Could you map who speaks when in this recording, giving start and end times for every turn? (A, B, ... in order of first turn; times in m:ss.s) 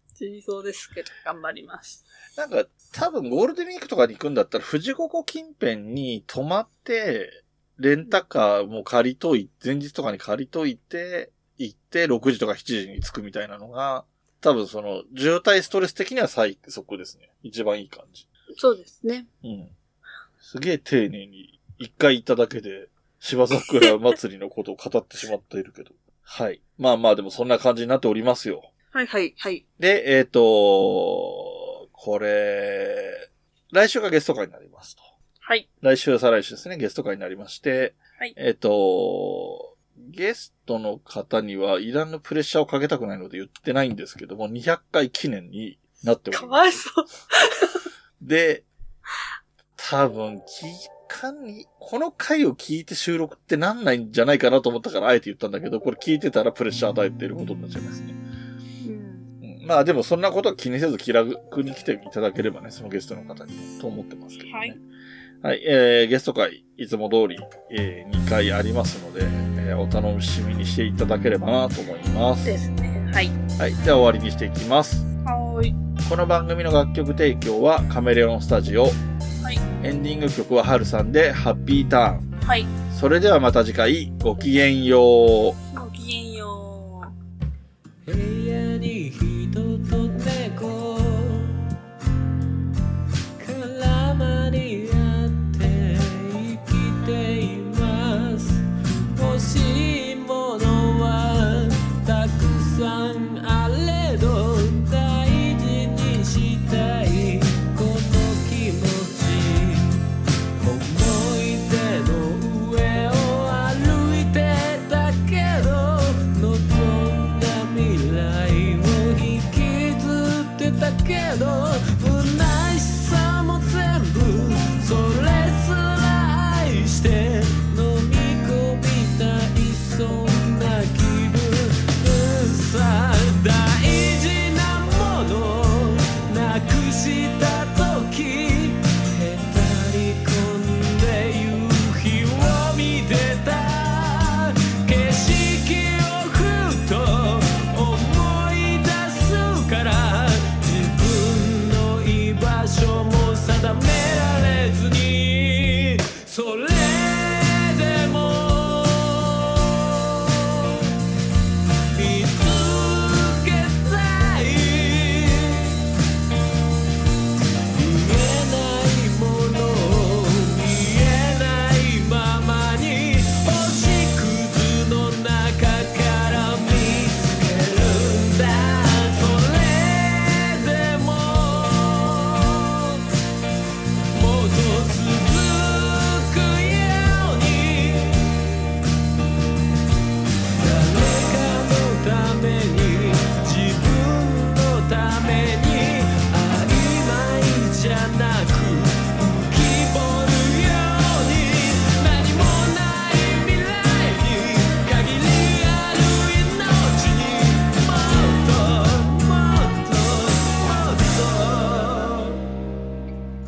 0:00.2-0:02.0 A
0:02.4-0:18.3 B
0:18.6-0:19.3 A
0:19.4-0:19.7 B
0:20.4-0:28.7 B
0:28.9-0:29.6 A
0:29.8-0:35.0 B
0:35.8-0:46.8 B
0:46.3-0:47.7 A
0:48.2-0:48.7 B
0:49.8-0:58.2 B
0:58.8-0:59.3 A
0:59.4-1:04.8 B
1:04.4-1:04.8 A
1:05.4-1:12.5 B
1:12.4-1:13.3 A
1:13.6-1:15.1 B
1:15.2-1:15.7 A
1:16.0-1:19.0 B
1:19.8-1:22.3 B
1:22.4-1:22.7 A
1:22.9-1:25.6 B
1:25.7-1:27.1 A
1:28.0-1:31.6 C
1:33.4-1:50.0 C
1:50.6-2:40.9 C
2:41.9-2:45.8 C
2:47.7-3:03.0 C
3:04.1-3:08.6 C
3:10.6-3:32.4 C